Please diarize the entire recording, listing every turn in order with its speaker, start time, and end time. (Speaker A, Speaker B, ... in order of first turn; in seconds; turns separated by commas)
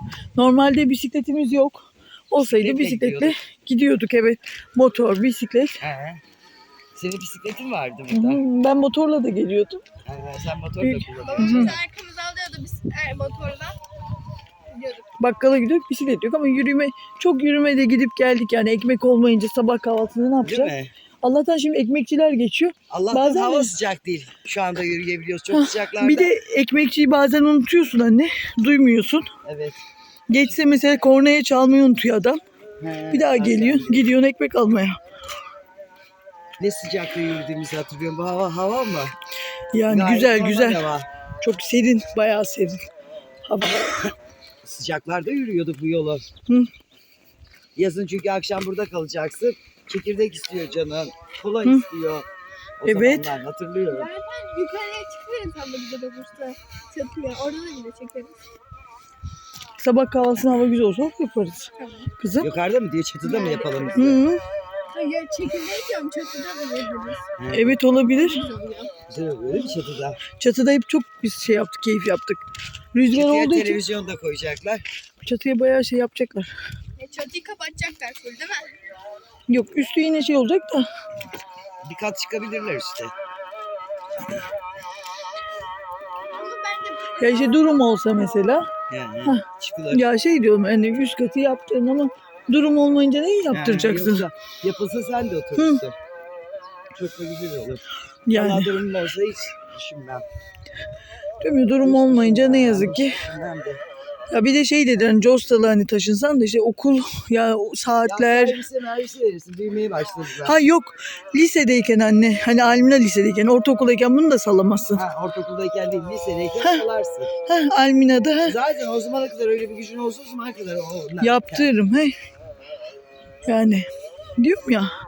Speaker A: 0.4-5.8, Speaker B: 2.4-3.4, Speaker B: 5.8-6.2, Speaker B: 7.0-8.4, Speaker A: 8.1-9.8, Speaker B: 10.1-11.8, Speaker A: 10.8-11.8, Speaker C: 11.2-13.8, Speaker C: 14.7-15.1, Speaker A: 15.2-23.8, Speaker B: 20.4-20.9, Speaker B: 22.9-26.3, Speaker A: 25.5-29.3, Speaker B: 29.4-29.8, Speaker A: 30.3-32.4, Speaker B: 32.8-34.1, Speaker A: 33.1-35.0, Speaker B: 36.6-39.1, Speaker A: 39.7-40.8, Speaker B: 39.9-41.1, Speaker A: 41.4-42.8, Speaker A: 43.5-43.9, Speaker B: 44.6-46.2, Speaker B: 47.8-52.3, Speaker B: 52.8-54.1, Speaker A: 52.8-53.3, Speaker C: 53.9-58.4, Speaker A: 59.8-62.5, Speaker C: 61.8-62.1, Speaker B: 62.4-64.2, Speaker C: 63.2-64.0, Speaker A: 64.0-64.4, Speaker C: 64.9-67.2, Speaker B: 67.4-67.8, Speaker A: 67.5-68.5, Speaker C: 68.0-68.9, Speaker B: 69.1-70.2, Speaker A: 70.4-72.4, Speaker A: 72.9-73.8, Speaker B: 73.1-74.8, Speaker A: 75.2-76.5, Speaker C: 77.0-78.8, Speaker A: 79.5-80.9, Speaker B: 81.8-83.1, Speaker C: 86.2-88.1, Speaker A: 87.2-88.7, Speaker B: 88.9-90.1, Speaker A: 89.2-94.2, Speaker B: 93.5-96.0, Speaker A: 95.6-95.8, Speaker B: 96.9-100.2, Speaker A: 98.3-98.8, Speaker A: 101.4-103.2, Speaker B: 101.8-103.8, Speaker A: 104.3-108.6, Speaker B: 108.0-110.6, Speaker A: 110.4-115.0, Speaker B: 114.9-117.3, Speaker A: 117.5-118.5, Speaker B: 118.4-121.7, Speaker A: 121.2-122.1, Speaker A: 123.5-124.9